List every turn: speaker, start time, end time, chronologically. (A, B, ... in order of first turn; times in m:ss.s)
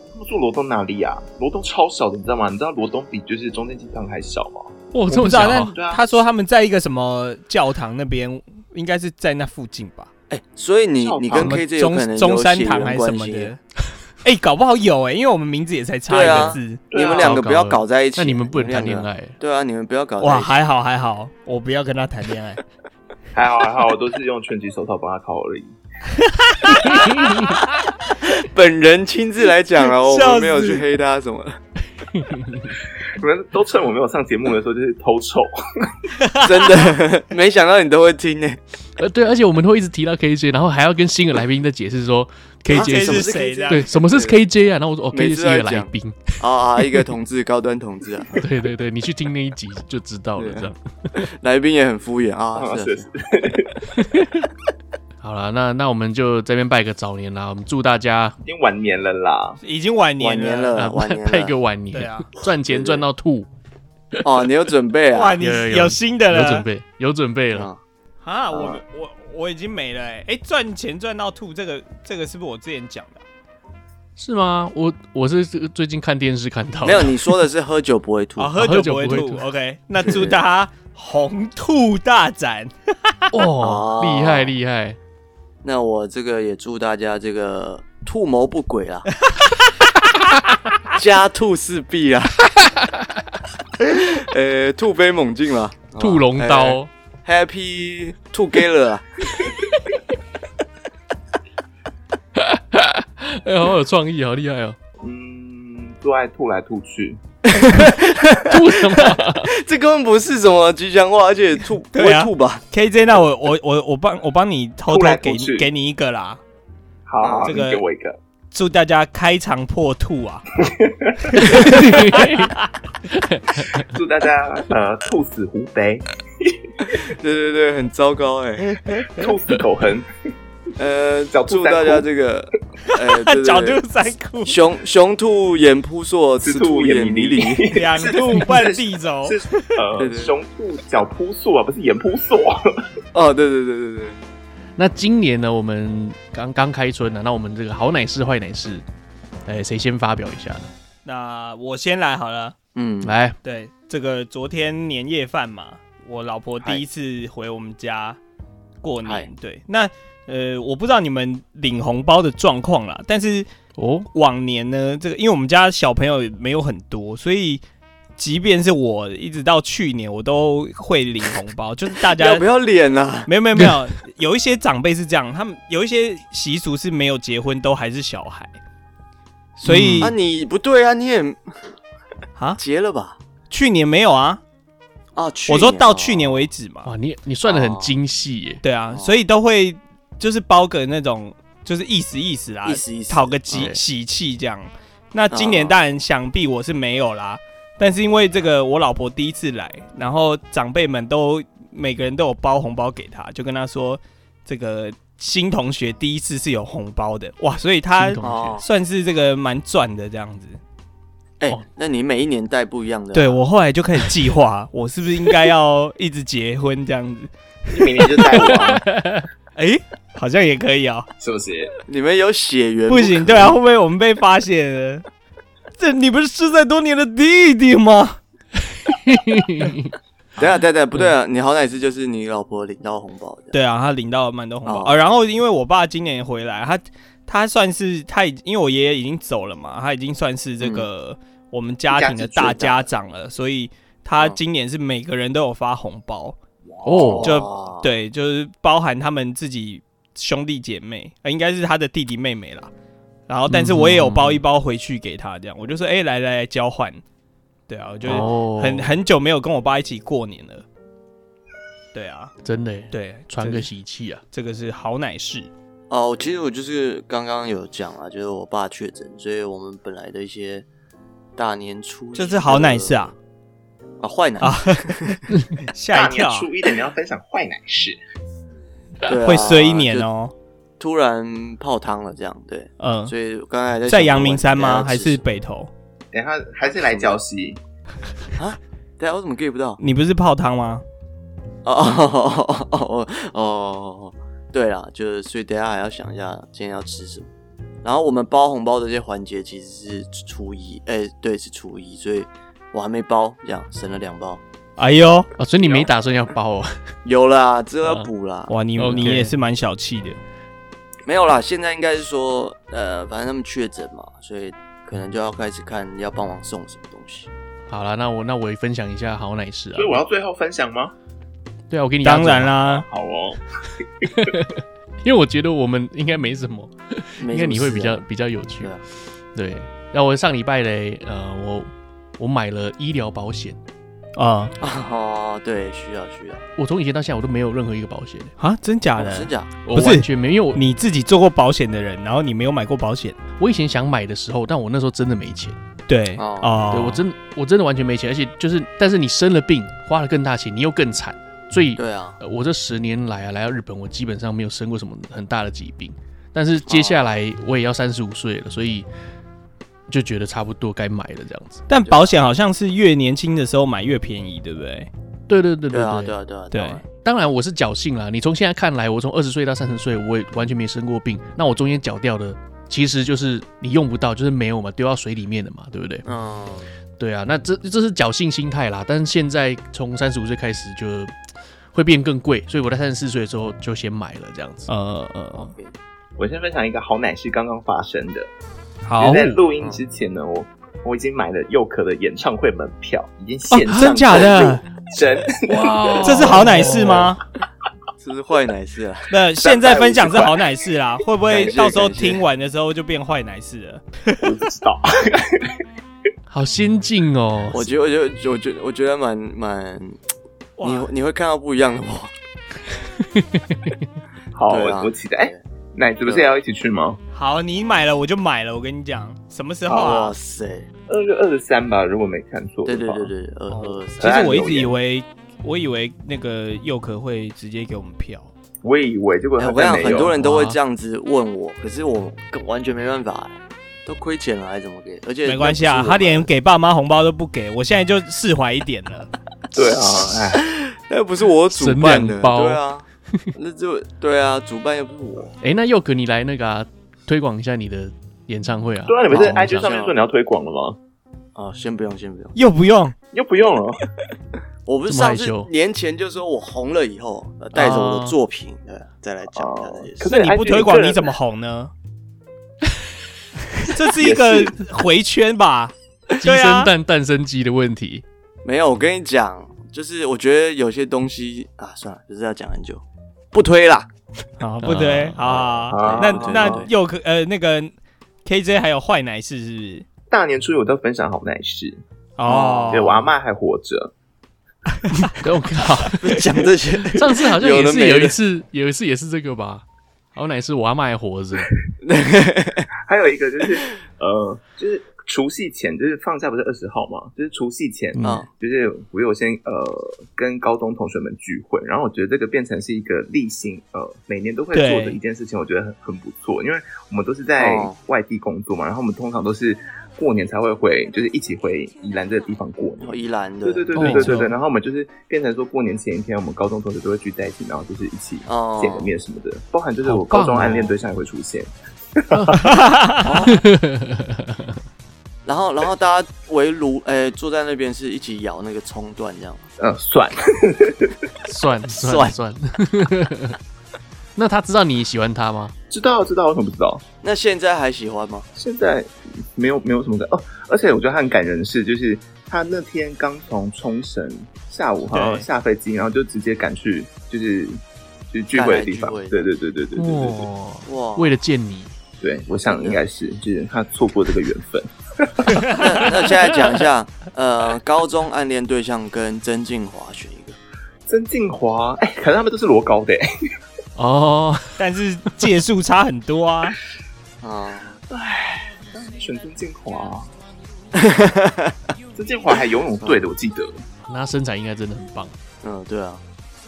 0:00.1-0:06.2 A
0:04.9-0:05.8 B
0:05.1-0:10.1 C
0:10.3-0:13.6 D
0:11.0-0:11.6 A
0:11.3-0:13.6 C
0:14.2-0:16.8 C
0:16.1-0:20.5 D
0:16.9-0:17.4 A
0:17.2-0:19.4 B
0:20.2-0:22.6 C
0:23.3-0:25.8 A
0:26.4-0:27.1 C
0:26.8-0:27.5 B
0:28.2-0:31.6 D
0:29.8-0:30.8 C
0:32.1-0:32.7 B
0:33.2-0:35.9 A
0:36.2-0:36.9 C
0:36.4-0:38.6 D
0:39.0-0:46.4 B
0:42.7-0:43.9 C
0:42.7-0:44.4 D
0:45.1-0:48.4 D
0:48.4-0:51.2 B
0:50.4-0:53.1 D
0:52.6-0:53.8 A
0:54.0-0:54.3 B
0:55.2-0:58.4 B
0:58.4-0:59.6 A
0:59.6-1:00.8 C
1:00.2-1:01.6 D
1:00.8-1:03.5 B
1:01.9-1:02.3 C
1:02.7-1:03.0 D
1:04.2-1:05.4 D
1:05.1-1:06.7 C
1:05.4-1:07.7 B
1:07.5-1:07.8 D
1:08.2-1:13.2 C
1:08.5-1:08.8 A
1:14.2-1:17.2 B
1:16.8-1:18.6 D
1:18.4-1:23.2 C
1:18.6-1:19.4 B
1:20.0-1:20.4 D
1:23.3-1:25.0 B
1:23.6-1:24.5 D
1:25.6-1:29.1 D
1:30.9-1:32.4 D
1:32.6-1:33.1 B
1:33.8-1:39.5 D
1:36.0-1:36.9 B
1:42.4-1:44.8 B
1:45.0-1:47.2 A
1:47.4-1:52.6 D
1:48.4-1:49.5 B
1:51.9-1:56.4 C
1:54.9-1:55.7 A
1:57.1-1:58.2 A
1:57.2-1:57.6 D
1:57.5-1:57.8 C
1:58.5-2:00.5 C
2:00.6-2:01.5 A
2:01.4-2:02.5 B
2:01.4-2:02.6 C
2:03.1-2:03.8 B
2:03.8-2:06.7 A
2:06.9-2:09.0 D
2:08.9-2:09.3 C
2:09.1-2:10.1 A
2:10.8-2:13.8 D
2:11.3-2:12.1 A
2:12.9-2:14.6 C
2:14.5-2:17.7 D
2:16.4-2:22.8 A
2:17.7-2:19.8 C
2:20.0-2:20.3 D
2:23.1-2:24.2 D
2:24.8-2:28.8 B
2:29.5-2:30.7 B
2:31.0-2:32.6 C
2:32.8-2:33.2 D
2:33.0-2:33.4 B
2:33.4-2:38.2 C
2:38.8-2:43.5 C
2:39.0-2:39.3 D
2:43.8-2:44.1 B
2:44.1-2:47.6 C
2:48.2-2:52.4 C
2:52.0-2:53.3 D
2:53.3-2:58.6 C
2:59.6-3:00.2 C
2:59.6-3:00.1 B
3:00.0-3:01.8 D
3:02.6-3:03.2 D
3:03.5-3:04.4 C
3:05.2-3:06.4 D
3:05.5-3:06.9 C
3:06.8-3:08.6 B
3:07.4-3:08.0 D
3:08.6-3:30.6 C
3:08.9-3:09.2 D
3:12.6-3:13.7 D
3:13.5-3:13.8 B
3:15.3-3:15.8 D
3:28.0-3:28.6 B
3:28.2-3:28.6 D
3:31.4-3:33.4 D
3:33.1-3:38.5 C
3:37.7-3:38.8 A
3:38.4-3:39.3 B
3:39.6-3:41.1 C
3:41.2-3:41.7 A
3:41.9-3:43.6 D
3:42.9-3:45.0 C
3:45.8-3:48.2 C
3:48.8-3:50.0 B
3:50.4-3:53.6 D
3:53.5-4:06.4 C
3:54.6-3:55.0 D
4:00.6-4:00.9 D
4:01.9-4:02.9 D
4:06.7-4:07.3 A
4:06.8-4:07.4 B
4:07.0-4:07.9 D
4:07.2-4:12.7 C
4:13.3-4:17.0 C
4:13.5-4:14.4 B
4:17.7-4:20.6 C
4:18.0-4:19.0 B
4:21.9-4:22.3 C
4:22.4-4:24.2 B
4:22.9-4:23.7 C
4:24.3-4:25.5 C
4:25.9-4:30.7 D
4:31.4-4:33.1 D
4:32.2-4:33.1 C
4:34.0-4:35.2 D
4:34.4-4:36.5 C
4:35.9-4:38.0 A
4:39.1-4:40.1 D
4:39.1-4:40.3 C
4:40.8-4:45.2 D
4:42.8-4:43.1 C
4:43.9-4:45.7 C
4:46.1-4:47.6 A
4:46.8-4:47.2 D
4:48.4-4:49.8 D
4:49.8-4:50.8 C
4:51.6-4:57.3 D
4:57.8-5:04.4 D
5:04.8-5:05.3 C
5:05.4-5:06.8 B
5:05.6-5:05.9 D
5:07.0-5:09.2 D
5:08.5-5:10.2 C
5:08.8-5:09.3 B
5:11.1-5:17.3 D
5:17.7-5:20.0 B
5:19.8-5:20.9 A
5:21.7-5:22.6 B
5:22.0-5:22.9 C
5:22.7-5:24.1 A
5:24.0-5:28.7 B
5:27.2-5:28.1 D
5:29.4-5:33.6 B
5:34.2-5:34.5 C
5:34.6-5:36.4 D
5:36.6-5:38.3 B
5:38.4-5:43.2 C
5:39.0-5:39.5 D
5:39.6-5:40.6 B
5:43.4-5:45.6 B
5:45.9-5:47.0 C
5:46.2-5:46.7 D
5:46.7-5:58.9 B
5:51.8-5:52.2 D
5:56.7-5:57.0 D
5:59.9-6:01.6 B
6:01.7-6:04.9 C
6:01.8-6:02.2 D
6:05.3-6:06.1 B
6:05.7-6:06.9 D
6:06.5-6:06.8 C
6:07.0-6:16.0 B
6:16.0-6:16.7 D
6:17.0-6:21.1 B
6:21.7-6:24.7 B
6:24.7-6:25.5 C
6:25.4-6:25.7 D
6:26.2-6:28.3 A
6:28.8-6:29.4 C
6:29.0-6:37.0 A
6:33.5-6:34.6 C
6:35.5-6:37.1 B
6:36.0-6:37.2 C
6:38.0-6:40.3 D
6:39.1-6:44.3 C
6:39.4-6:40.4 A
6:41.3-6:42.2 D
6:44.2-6:45.5 A
6:46.3-6:47.6 B
6:47.5-6:50.0 D
6:50.6-6:50.9 C
6:50.6-6:52.1 D
6:53.0-6:53.8 B
6:54.3-6:57.0 A
6:54.5-6:55.4 D
6:57.1-7:00.2 C
6:59.7-7:00.7 D
7:00.9-7:03.1 A
7:02.6-7:04.4 D
7:03.5-7:08.3 C
7:04.0-7:04.8 A
7:08.6-7:10.2 A
7:09.4-7:16.3 D
7:10.2-7:10.6 B
7:15.2-7:19.1 C
7:19.5-7:20.4 A
7:20.3-7:25.4 D
7:21.5-7:22.6 B
7:25.4-7:29.7 B
7:28.9-7:30.8 A
7:29.1-7:30.1 D
7:31.4-7:32.4 D
7:32.4-7:33.0 C
7:33.1-7:33.8 A
7:34.7-7:40.1 D
7:34.9-7:35.5 B
7:37.5-7:38.2 B
7:39.3-7:41.2 A
7:40.0-7:41.7 C
7:43.6-7:46.7 C
7:44.0-7:44.6 A
7:46.2-7:48.0 B
7:48.4-7:53.9 D
7:54.4-7:57.7 C
7:54.6-7:55.2 B
7:55.2-7:56.7 D
7:55.7-7:56.7 A
7:58.2-7:59.9 C
8:00.1-8:01.8 A
8:02.2-8:03.1 C
8:02.2-8:02.8 D
8:02.7-8:03.9 A
8:04.9-8:05.2 C
8:05.2-8:06.4 B
8:05.8-8:08.2 D
8:06.9-8:09.6 B
8:10.2-8:11.5 B
8:11.8-8:12.7 D
8:12.8-8:42.6 A
8:18.0-8:18.2 B
8:18.0-8:18.3 D
8:24.5-8:25.0 C
8:27.4-8:27.7 D
8:32.8-8:33.8 D
8:33.8-8:34.2 B
8:33.8-8:34.3 C
8:38.3-8:38.9 D
8:39.8-8:40.8 B
8:42.1-8:42.5 B
8:42.4-8:43.2 C
8:43.0-8:43.4 D
8:43.3-8:44.6 B
8:45.3-8:49.5 D
8:49.6-8:51.0 A
8:51.2-8:53.4 B
8:51.7-8:52.2 D
8:54.2-8:55.5 B
8:55.7-8:56.8 A
8:57.0-8:58.3 D
8:58.4-9:10.3 A
9:04.9-9:05.3 C
9:08.3-9:09.3 D
9:09.8-9:11.7 B
9:10.7-9:11.2 D
9:12.0-9:15.9 A
9:12.5-9:12.8 D
9:15.5-9:20.4 D
9:20.9-9:23.0 A
9:23.8-9:24.6 B
9:24.6-9:26.6 C
9:27.2-9:27.8 D
9:27.9-9:30.1 A
9:30.8-9:31.6 D
9:32.0-9:33.5 A
9:33.9-9:35.1 B
9:35.4-9:36.0 D